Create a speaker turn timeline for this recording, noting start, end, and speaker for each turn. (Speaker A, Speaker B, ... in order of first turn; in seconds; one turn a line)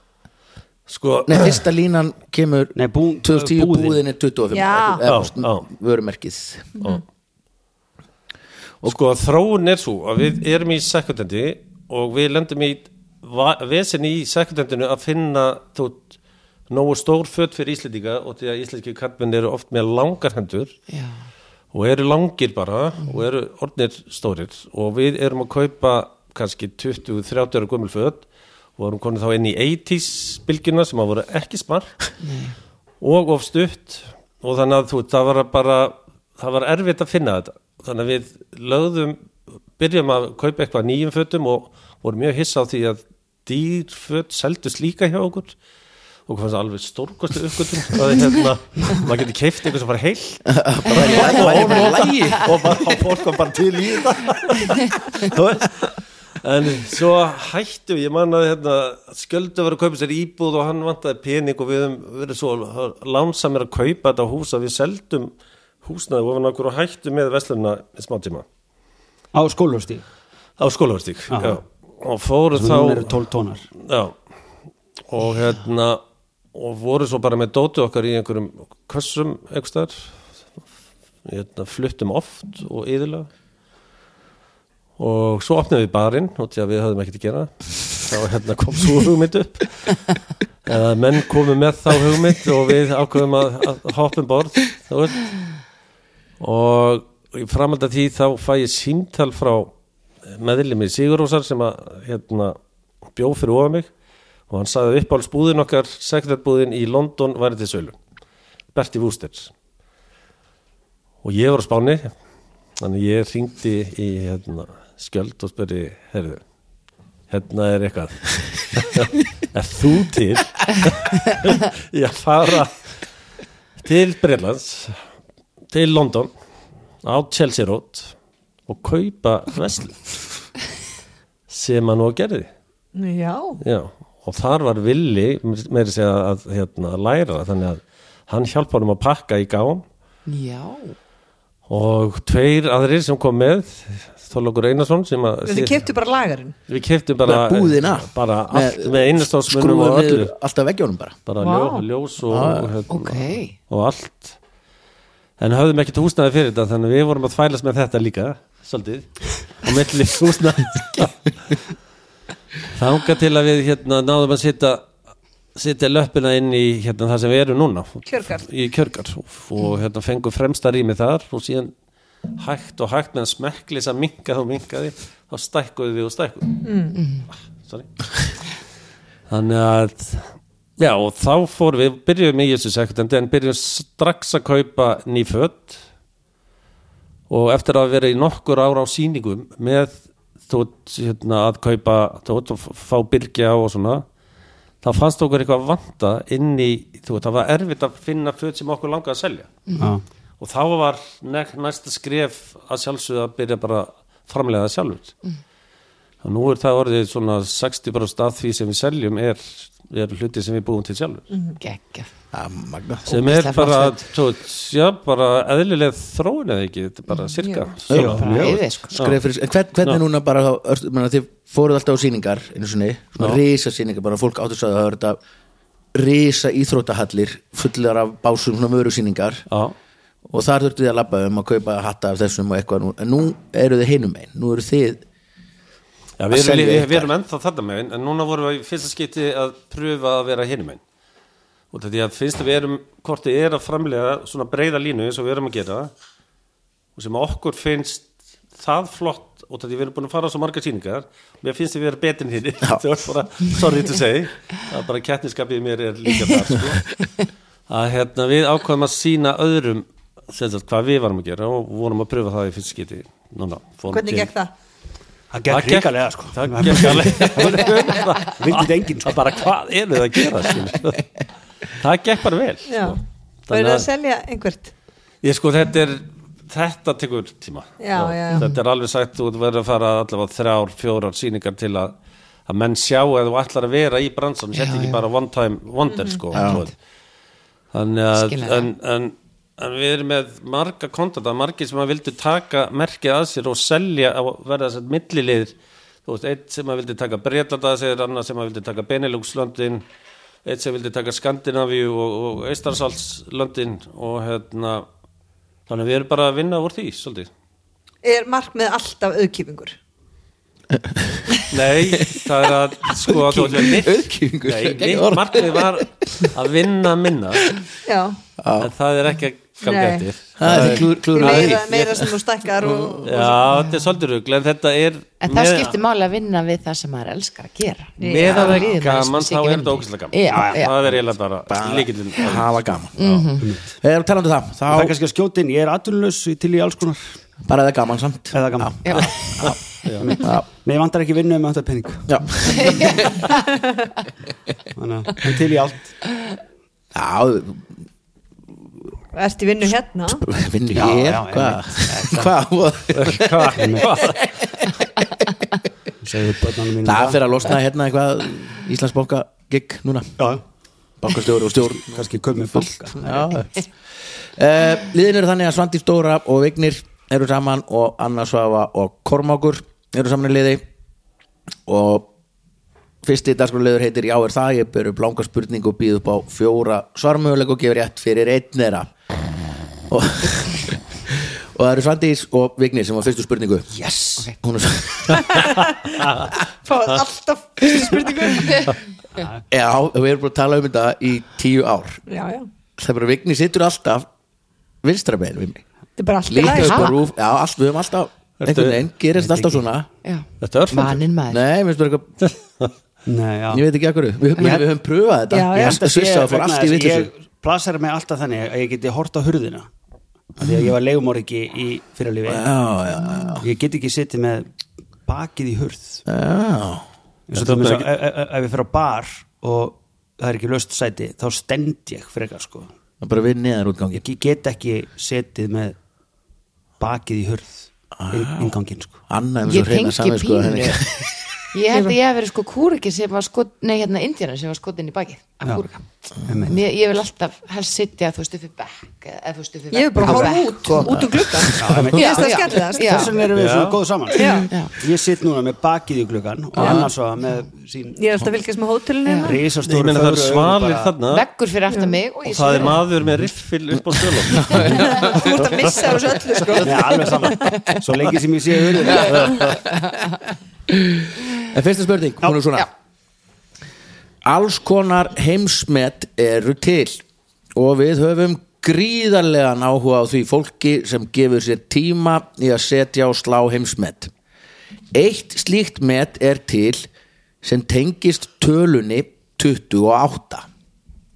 Speaker A: 0.9-1.6
Speaker B: 1.2-6.7
Speaker C: 2.8-4.0
Speaker D: 4.5-5.0
Speaker A: 5.0-5.7
Speaker A: 8.8-16.1
Speaker A: 16.7-20.7
Speaker E: 20.9-21.1
Speaker A: 21.7-28.2
Speaker A: 28.8-31.9
Speaker E: 32.2-32.5
Speaker A: 33.0-45.5
Speaker A: 46.3-68.4
Speaker B: 50.5-52.8
Speaker E: 51.1-51.5
Speaker C: 69.3-70.0
Speaker A: 70.6-73.1
Speaker C: 71.3-71.6
Speaker C: 72.5-73.7
Speaker A: 73.8-74.1
Speaker A: 75.1-76.0
Speaker A: 76.5-80.1
Speaker A: 81.2-83.3
Speaker A: 85.0-90.1
Speaker A: 90.6-95.3
Speaker A: 96.4-99.7
Speaker A: 100.2-102.6
Speaker A: 103.1-103.9
Speaker A: 104.5-108.0
Speaker A: 108.7-109.5
Speaker A: 111.2-112.1
Speaker A: 112.8-116.4
Speaker A: 117.3-122.9
Speaker A: 123.8-125.0
Speaker A: 125.7-126.3
Speaker A: 127.0-128.1
Speaker A: 128.7-130.1
Speaker A: 131.5-132.5
Speaker D: 132.9-133.6
Speaker A: 133.6-139.8
Speaker E: 140.3-140.9
Speaker A: 141.7-145.8
Speaker D: 145.4-146.5
Speaker A: 146.7-150.3
Speaker B: 147.2-151.2
Speaker A: 151.3-154.3
Speaker D: 151.4-151.8
Speaker B: 152.3-152.7
Speaker E: 152.9-153.5
Speaker A: 155.4-161.5
Speaker A: 162.7-164.8
Speaker A: 165.5-171.7
Speaker D: 168.1-168.4
Speaker A: 172.4-177.0
Speaker D: 176.6-177.0
Speaker A: 179.3-185.8
Speaker A: 187.3-194.0
Speaker A: 194.8-199.5
Speaker C: 199.8-200.0
Speaker A: 200.4-205.1
Speaker A: 206.2-211.2
Speaker D: 211.3-211.6
Speaker E: 211.6-212.1
Speaker B: 212.3-213.2
Speaker A: 213.1-219.2
Speaker E: 213.1-213.9
Speaker D: 217.4-217.7
Speaker B: 217.9-225.2
Speaker C: 217.9-218.6
Speaker E: 218.2-218.9
Speaker B: 225.9-229.4
Speaker A: 229.5-229.7
Speaker B: 230.3-235.0
Speaker A: 236.2-240.8
Speaker B: 236.3-237.1
Speaker A: 241.7-245.9
Speaker A: 246.9-256.9
Speaker A: 257.7-264.3
Speaker D: 263.9-264.5
Speaker C: 265.3-269.2
Speaker A: 265.5-271.1
Speaker A: 271.7-273.9
Speaker D: 272.7-273.0
Speaker D: 273.5-274.7
Speaker A: 275.2-281.9
Speaker D: 277.8-278.5
Speaker A: 282.5-286.7
Speaker E: 284.6-285.0
Speaker D: 285.9-286.2
Speaker E: 286.3-286.7
Speaker B: 286.3-286.6
Speaker A: 287.7-295.5
Speaker E: 288.1-288.7
Speaker A: 296.1-299.8
Speaker A: 300.4-304.9
Speaker A: 305.7-307.3
Speaker D: 308.0-309.7
Speaker B: 310.7-311.4
Speaker A: 311.5-317.6
Speaker B: 313.1-315.8
Speaker D: 317.9-318.2
Speaker B: 318.4-318.7
Speaker A: 318.6-322.1
Speaker D: 319.6-320.1
Speaker B: 320.4-321.7
Speaker D: 321.1-323.4
Speaker B: 322.6-323.1
Speaker A: 323.0-325.8
Speaker E: 323.5-323.8
Speaker E: 325.2-330.7
Speaker D: 328.0-328.7
Speaker A: 328.0-333.1
Speaker C: 330.3-330.7
Speaker B: 331.5-334.9
Speaker E: 333.0-333.5
Speaker C: 333.4-333.7
Speaker C: 334.7-337.1
Speaker B: 337.4-339.6
Speaker C: 338.3-339.3
Speaker E: 338.9-339.1
Speaker A: 339.8-340.1
Speaker C: 340.0-342.2
Speaker B: 340.2-340.4
Speaker B: 342.1-343.0
Speaker E: 342.6-343.2
Speaker C: 344.8-345.9
Speaker B: 346.9-347.7
Speaker D: 349.1-350.2
Speaker B: 350.1-354.7
Speaker C: 350.7-352.3
Speaker A: 352.9-354.2
Speaker C: 353.5-354.0
Speaker C: 356.0-357.2
Speaker B: 356.8-360.1
Speaker B: 361.0-362.0
Speaker C: 361.8-363.3
Speaker B: 362.9-363.6
Speaker B: 364.4-370.6
Speaker B: 371.7-372.1
Speaker B: 373.0-378.9
Speaker B: 379.9-383.7
Speaker C: 383.7-384.3
Speaker B: 384.4-385.4
Speaker D: 385.3-386.0
Speaker D: 386.6-388.7
Speaker B: 389.5-392.0
Speaker D: 392.1-392.5
Speaker B: 392.8-394.1
Speaker B: 394.8-395.6
Speaker D: 396.0-396.9
Speaker B: 396.3-399.9
Speaker E: 396.5-396.9
Speaker A: 398.4-398.8
Speaker C: 399.2-399.6
Speaker E: 400.0-401.4
Speaker A: 400.4-401.0
Speaker B: 401.3-402.1
Speaker A: 402.2-402.7
Speaker C: 403.1-403.6
Speaker B: 403.5-407.1
Speaker C: 404.4-404.6
Speaker D: 405.3-405.8
Speaker C: 405.5-409.7
Speaker C: 410.4-412.5
Speaker B: 412.3-413.4
Speaker C: 413.4-414.5
Speaker C: 415.1-416.0
Speaker B: 416.1-416.9
Speaker C: 417.3-422.7
Speaker A: 417.3-417.9
Speaker B: 423.0-424.0
Speaker C: 424.0-425.8
Speaker C: 426.8-429.0
Speaker B: 428.0-428.6
Speaker B: 429.1-431.1
Speaker E: 429.4-430.9
Speaker E: 431.5-441.0
Speaker D: 431.7-431.9
Speaker C: 436.2-436.6
Speaker D: 439.7-443.1
Speaker C: 440.0-440.3
Speaker B: 440.8-441.9
Speaker C: 441.6-448.0
Speaker E: 441.9-443.2
Speaker A: 443.3-443.8
Speaker D: 444.1-444.5
Speaker E: 444.5-444.7
Speaker B: 446.6-446.9
Speaker D: 447.9-449.4
Speaker E: 449.1-449.3
Speaker C: 449.2-450.9
Speaker A: 449.6-451.3
Speaker E: 451.1-452.8
Speaker D: 451.7-452.0
Speaker A: 452.2-455.9
Speaker B: 454.2-454.9
Speaker D: 454.6-457.1
Speaker C: 456.6-459.3
Speaker A: 459.1-459.6
Speaker E: 459.6-459.9
Speaker B: 461.4-462.7
Speaker B: 464.2-467.0
Speaker B: 467.5-474.1
Speaker B: 474.9-476.9
Speaker B: 477.4-480.5